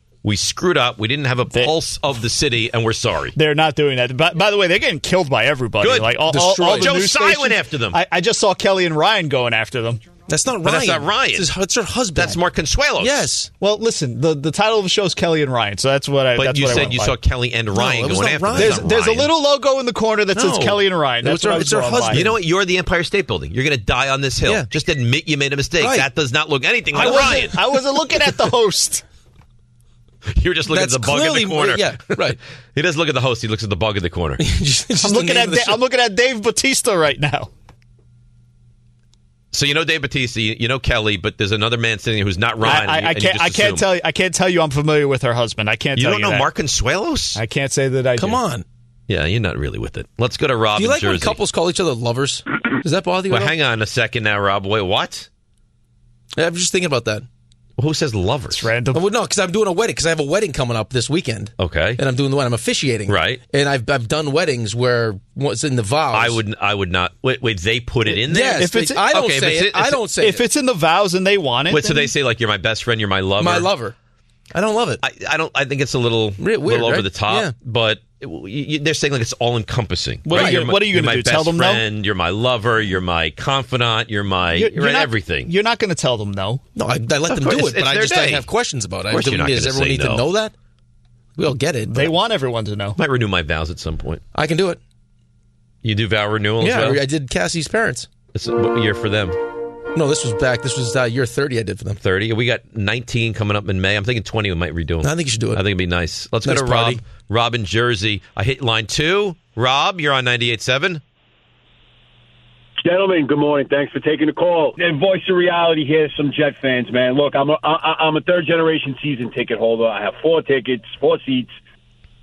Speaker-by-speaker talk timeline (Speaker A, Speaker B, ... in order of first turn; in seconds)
Speaker A: 0.2-3.3, 5.8-8.0, 10.6-11.5, 12.1-13.3, 16.4-19.3, 22.1-27.6, 30.3-34.4, 39.5-43.9, 46.0-47.4, 49.1-51.4, 53.3-55.3, 57.8-58.7, 61.6-62.0, 63.1-63.4, 66.1-70.0, 71.7-73.7, 75.0-85.5, 87.3-88.5, 89.1-90.2, 93.0-94.2, 95.8-97.0, 98.3-99.4, 102.0-111.0
Speaker B: 3.4-10.0, 13.6-17.2, 18.5-22.3, 26.9-29.0, 35.0-37.5, 42.6-46.5, 47.4-48.4, 58.5-59.0, 68.6-69.0, 70.2-72.1, 80.3-81.8, 84.5-86.6, 91.9-93.0
Speaker C: 6.2-7.1, 10.3-12.4, 13.0-13.5, 17.7-19.1, 20.3-22.4, 25.8-26.1, 27.0-27.5, 30.7-32.4, 34.4-35.8, 48.2-48.6, 50.8-53.6, 56.4-57.3, 58.9-66.4, 68.2-70.5, 73.4-74.0, 74.5-75.0, 76.4-77.5, 80.3-80.7, 86.8-90.5, 91.4-92.1, 94.3-94.8, 96.6-98.1, 99.9-102.0, 105.0-105.6, 106.4-107.0
Speaker D: 112.8-121.5